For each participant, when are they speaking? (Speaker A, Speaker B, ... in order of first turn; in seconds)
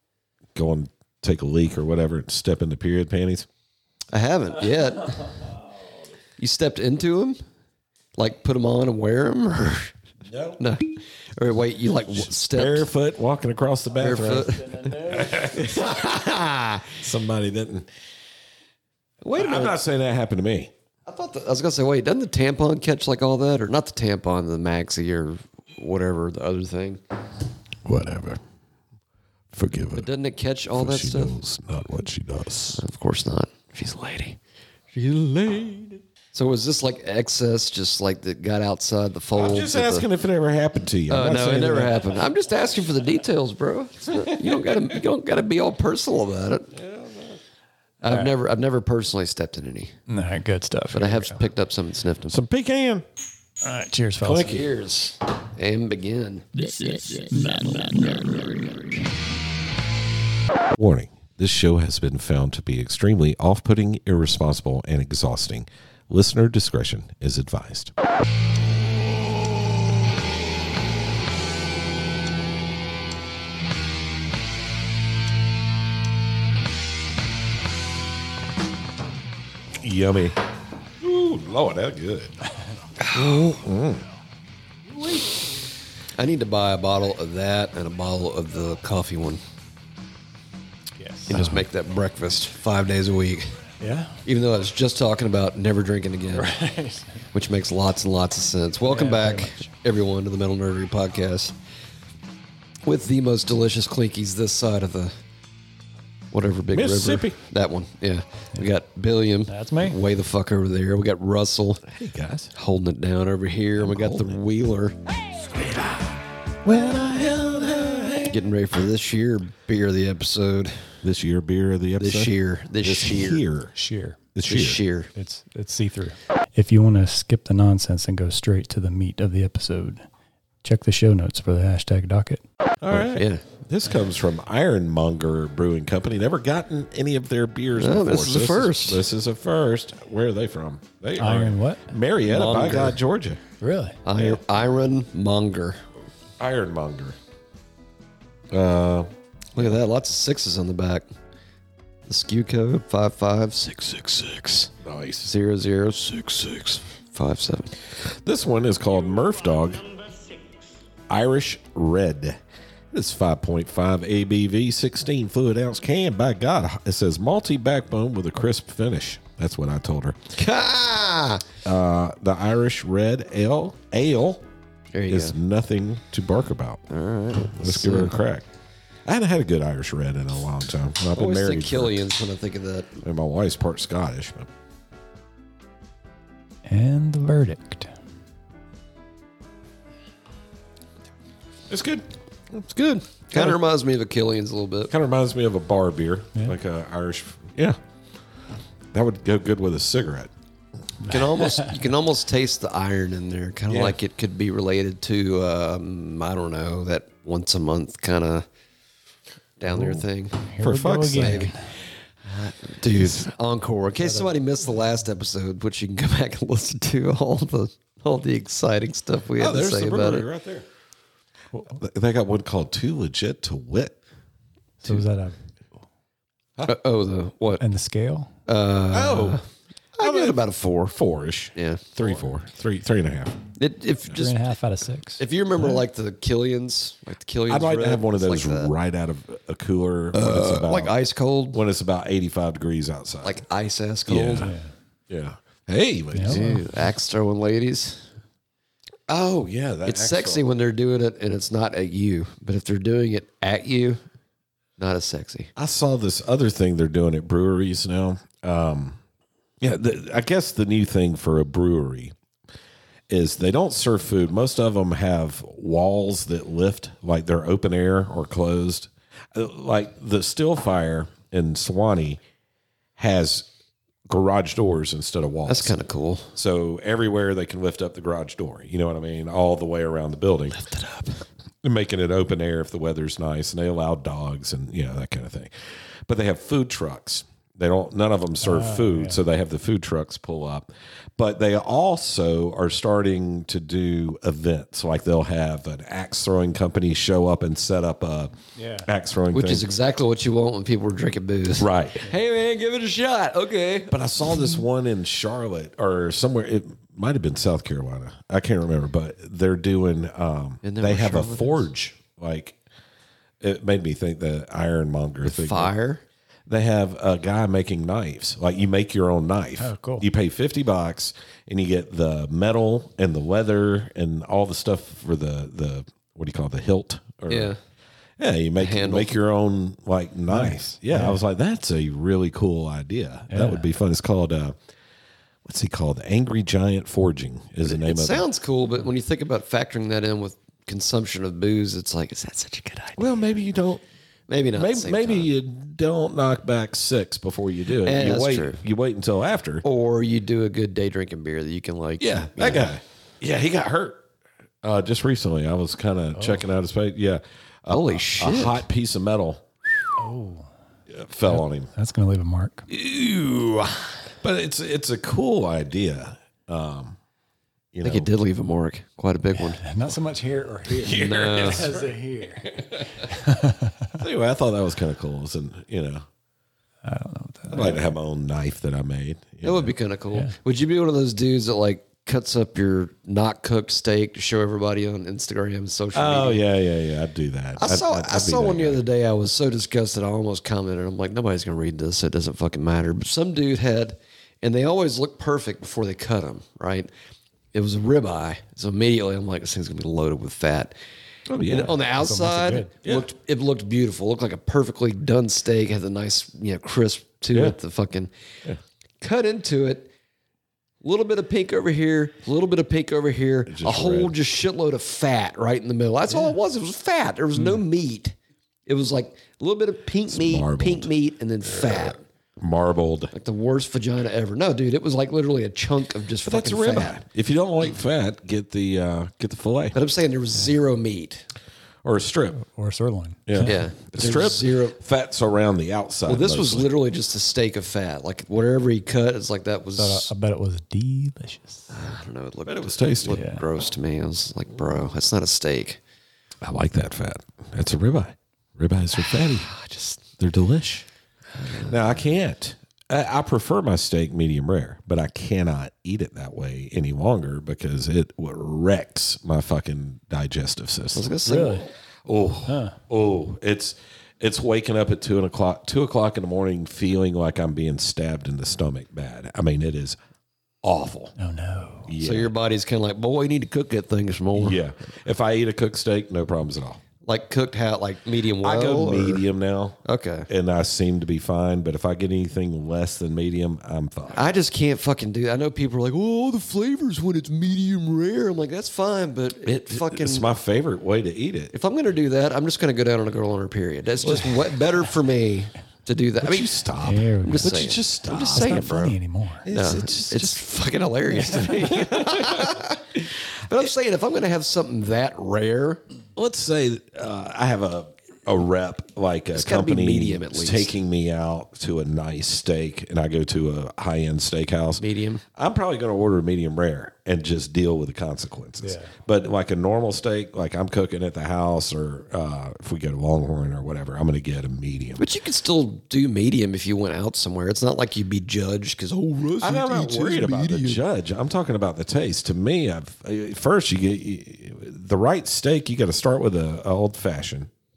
Speaker A: 0.5-3.5, 10.3-10.6, 12.1-16.0, 17.0-17.9, 19.3-20.7, 27.8-28.4, 29.5-30.1, 30.7-32.8, 39.3-42.0, 44.1-44.9, 46.7-47.4, 52.3-53.0, 54.2-54.7, 60.8-67.9, 79.8-80.4, 81.0-82.3, 83.4-84.0, 106.7-107.4, 111.9-112.5, 113.8-114.4, 116.6-118.4, 121.0-123.7, 124.3-124.8, 132.8-143.4, 144.1-144.4, 146.4-147.2, 148.5-149.6, 154.8-155.3, 158.0-159.9, 161.1-162.4, 162.9-170.2, 171.6-174.4, 175.1-176.8, 177.5-178.4, 179.1-182.0, 183.0-184.5, 191.7-192.1, 194.9-197.8, 198.9-200.3, 203.7-204.0, 210.6-211.5, 219.4-220.7, 221.7-223.9, 228.9-229.4, 230.0-233.4, 237.5-240.9, 241.5-243.4, 244.1-244.5, 245.1-246.6, 249.1-250.4, 255.6-259.0, 259.6-262.1, 263.1-272.2, 273.0-273.5, 274.1-275.8, 276.3-280.6, 281.6-285.5, 286.0-298.3, 298.8-299.7, 301.6-302.1, 303.9-312.6, 313.4-315.7, 316.5-327.5, 328.2-334.6, 335.4-338.2, 343.0-343.8, 344.5-349.6, 352.0-354.0, 354.6-359.4, 360.9-361.7, 364.2-367.0, 367.7-368.1, 370.6-371.9, 374.0-376.1, 377.5-379.7, 385.9-388.8, 401.3-401.8, 402.8-403.1, 413.5-414.1, 420.1-420.9, 422.4-423.1, 426.2-429.8, 431.8-432.4, 433.2-436.7, 442.4-443.2, 446.4-449.5, 450.2-450.9, 451.6-461.1, 462.1-470.0, 470.6-471.1, 471.9-472.3, 474.3-476.8, 478.4-484.3, 489.7-491.5, 496.2-498.6, 499.4-500.4, 501.9-502.5, 506.1-514.8, 515.4-525.1, 529.4-537.5
Speaker B: 4.1-5.3, 6.4-7.4, 8.2-9.9, 10.6-12.9, 13.9-17.0, 19.2-19.8, 21.1-27.0, 29.9-31.4, 32.7-34.4, 34.9-40.1, 41.1-46.7, 48.0-50.0, 50.9-52.4, 54.4-56.5, 83.0-83.6, 86.1-89.4, 91.3-93.5, 94.2-96.5, 97.3-101.5, 102.8-105.1, 106.3-111.8, 112.5-115.0, 118.3-120.9, 122.0-123.4, 124.4-125.1, 132.9-133.4, 137.8-139.0, 142.2-143.0, 144.0-145.8, 149.5-151.1, 152.1-154.7, 155.2-157.7, 170.3-171.4, 174.9-175.3, 176.9-178.2, 181.1-182.9, 192.6-194.9, 201.1-208.5, 209.6-210.5, 211.1-211.7, 212.2-220.3, 226.6-227.6, 228.4-229.4, 229.9-230.9, 231.5-231.8, 233.6-234.3, 235.2-238.7, 240.1-241.6, 243.2-244.5, 246.2-248.1, 249.8-254.0, 254.8-255.5, 275.4-276.3, 280.5-281.2, 299.3-304.0, 310.6-311.7, 315.2-316.0, 327.3-327.6, 328.6-329.1, 337.6-343.1, 344.3-345.3, 347.8-348.6, 349.6-352.7, 357.7-358.6, 362.7-364.0, 367.8-369.6, 370.8-371.7, 379.4-386.4, 387.6-396.9, 397.5-400.8, 401.5-408.1, 409.0-409.9, 410.8-422.0, 423.1-427.0, 429.7-431.2, 433.4-434.8, 436.1-440.1, 441.7-445.8, 448.9-450.0, 451.3-452.0, 460.9-461.7, 472.0-474.6, 477.0-479.3, 479.8-480.3, 484.1-490.3, 491.5-496.6, 497.2-505.8, 509.3-510.7, 514.8-515.2, 525.0-530.8
Speaker C: 14.6-15.3, 48.0-48.3, 50.1-51.4, 53.6-54.6, 57.2-58.2, 91.0-91.6, 93.8-94.2, 96.3-97.2, 98.9-99.7, 109.5-110.0, 123.7-124.2, 125.1-130.1, 130.6-132.4, 141.2-141.9, 143.6-144.0, 186.6-187.9, 201.0-201.8, 210.5-211.6, 224.8-225.3, 227.6-228.3, 234.1-235.2, 244.3-244.7, 246.1-246.6, 288.4-289.2, 298.6-298.9, 319.6-320.1, 330.3-331.2, 333.3-333.6, 356.1-356.4, 360.0-360.5, 361.3-362.6, 369.3-373.9, 376.8-377.8, 401.9-402.7, 432.4-433.6, 439.8-441.7, 443.1-443.4, 461.2-461.7, 462.5-462.8, 471.2-471.9, 496.8-499.4, 501.1-501.4, 518.6-518.9